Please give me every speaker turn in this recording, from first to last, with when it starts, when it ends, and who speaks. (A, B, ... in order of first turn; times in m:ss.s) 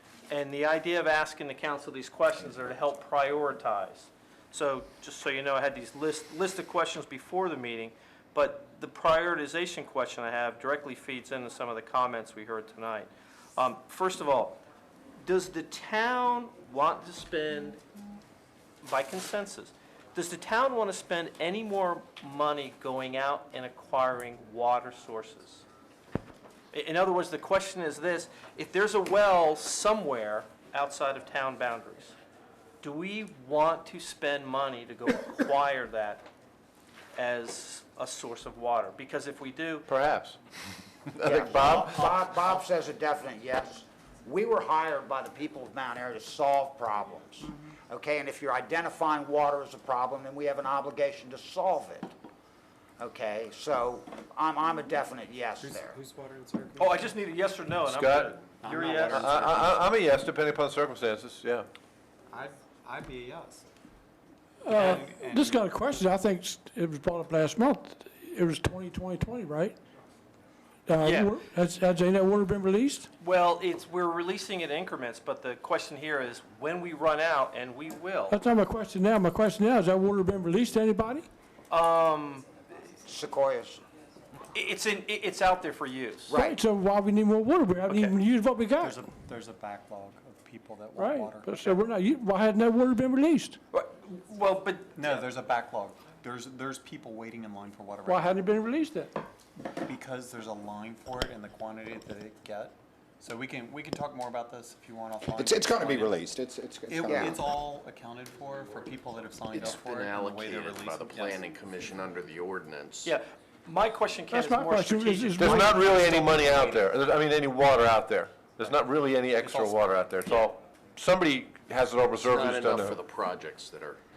0:00.3-0:14.6 A
0:15.2-0:17.8 A
0:18.8-0:25.7 A
0:26.7-0:32.2 A
0:32.8-0:36.3 A
0:37.2-0:39.9 A
0:39.9-0:40.4 B
0:41.1-0:42.2 B
0:41.2-0:52.1 C
0:53.0-0:56.0 C
0:55.6-0:57.1 D
0:56.8-0:59.5 A
0:57.8-0:58.4 B
0:58.6-0:59.8 D
0:59.2-1:01.7 B
1:02.3-1:03.7 D
1:04.6-1:09.8 E
1:04.7-1:06.0 D
1:04.7-1:05.0 A
1:10.9-1:13.1 E
1:11.0-1:11.4 A
1:13.2-1:18.4 A
1:18.3-1:21.3 E
1:21.7-1:22.5 A
1:23.0-1:23.8 C
1:24.5-1:26.4 A
1:26.3-1:26.6 C
1:26.3-1:29.0 E
1:27.9-1:28.2 A
1:28.8-1:31.8 D
1:31.0-1:33.6 E
1:33.7-1:35.2 A
1:35.0-1:38.5 D
1:38.0-1:39.1 E
1:39.8-1:46.2 D
1:45.3-1:47.4 F
1:46.9-1:51.7 D
1:47.1-1:47.4 C
1:49.5-1:53.1 G
1:53.0-1:56.8 A
1:54.3-1:56.5 E
1:55.4-2:03.0 B
1:59.4-1:59.8 D
2:02.1-2:04.0 G